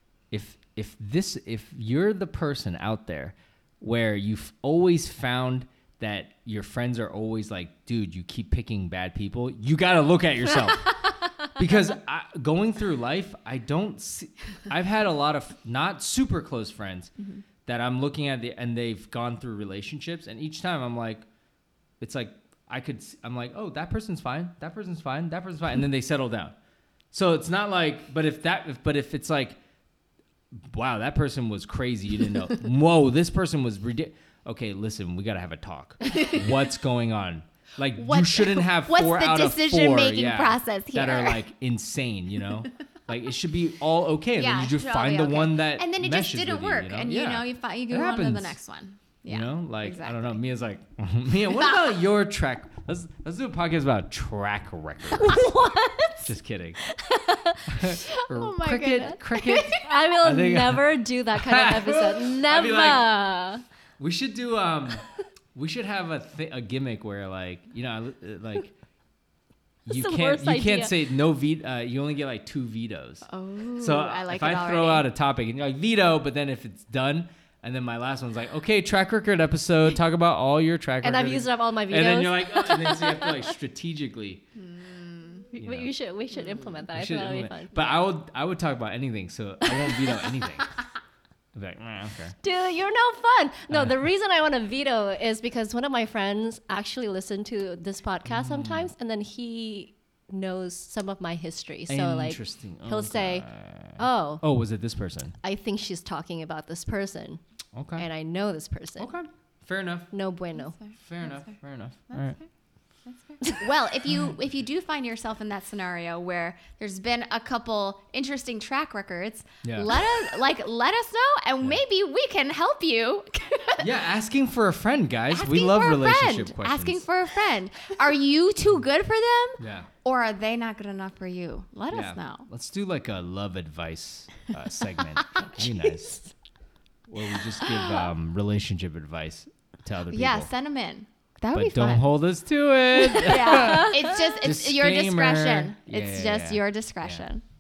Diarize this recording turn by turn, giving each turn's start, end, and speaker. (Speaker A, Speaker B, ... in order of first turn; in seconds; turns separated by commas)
Speaker A: 0.3-17.1, Speaker A: 17.7-21.3, Speaker A: 22.0-26.6, Speaker A: 27.1-29.6, Speaker A: 30.5-48.6, Speaker B: 36.1-36.4, Speaker B: 38.0-41.4, Speaker B: 44.4-50.4, Speaker A: 49.3-55.5, Speaker B: 51.5-51.9, Speaker C: 55.2-56.3, Speaker A: 56.2-56.8, Speaker C: 56.8-57.8, Speaker A: 57.7-63.2, Speaker B: 57.9-60.0, Speaker C: 59.7-63.6, Speaker A: 64.0-68.7, Speaker A: 69.8-84.4, Speaker C: 69.9-70.9, Speaker B: 73.2-75.1, Speaker C: 81.0-83.5, Speaker B: 84.6-85.5, Speaker C: 85.5-88.0, Speaker A: 85.6-85.9, Speaker B: 86.4-86.7, Speaker A: 86.9-90.7, Speaker C: 89.6-90.0, Speaker A: 91.5-92.4, Speaker C: 92.4-104.4, Speaker A: 93.7-94.1, Speaker A: 98.3-98.9, Speaker A: 101.9-105.4, Speaker C: 105.4-107.4, Speaker A: 107.7-108.1, Speaker C: 108.0-109.2, Speaker A: 109.0-110.1, Speaker C: 110.1-110.8, Speaker B: 110.5-111.5, Speaker A: 111.0-112.4, Speaker B: 112.1-112.5, Speaker B: 113.1-123.9, Speaker A: 119.6-120.0, Speaker A: 123.8-127.0, Speaker B: 125.3-132.5, Speaker A: 129.6-129.9, Speaker A: 131.9-136.3, Speaker B: 135.2-135.7, Speaker A: 137.1-140.5, Speaker B: 137.6-138.1, Speaker B: 140.1-142.1, Speaker A: 141.5-147.2, Speaker B: 143.1-147.4, Speaker C: 143.5-144.2